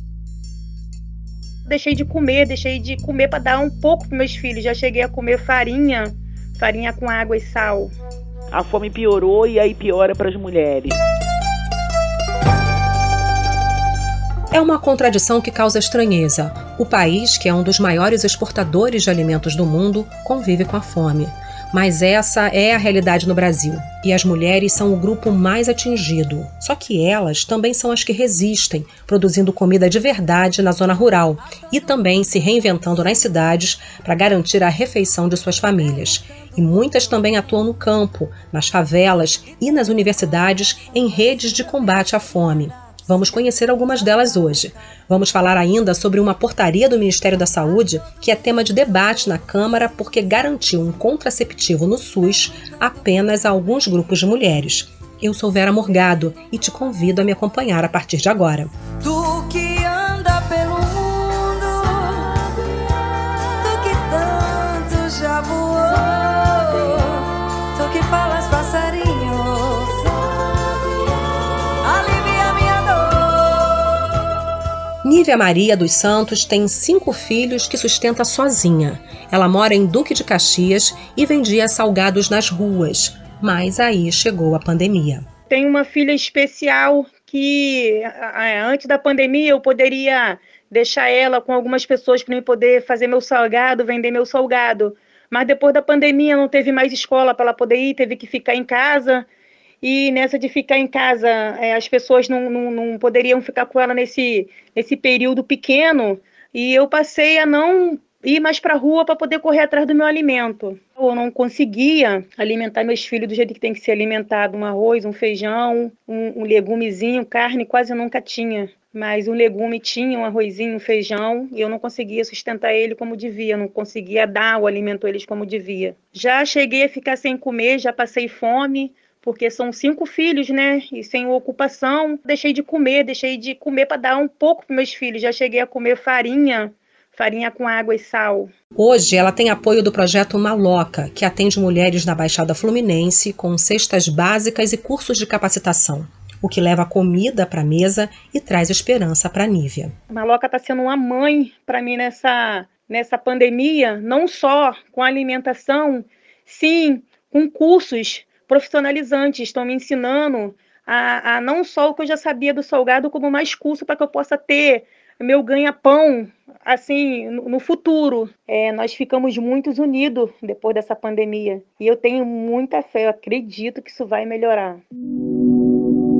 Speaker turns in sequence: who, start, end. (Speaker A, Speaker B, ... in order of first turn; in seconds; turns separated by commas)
Speaker A: 1.7-7.9, Speaker B: 8.5-11.0, Speaker C: 14.5-58.7, Speaker D: 59.0-62.8, Speaker D: 63.6-70.8, Speaker D: 71.8-74.0, Speaker C: 75.0-85.2, Speaker A: 85.5-99.2, Speaker A: 99.8-138.5, Speaker C: 138.8-149.9, Speaker A: 150.1-174.8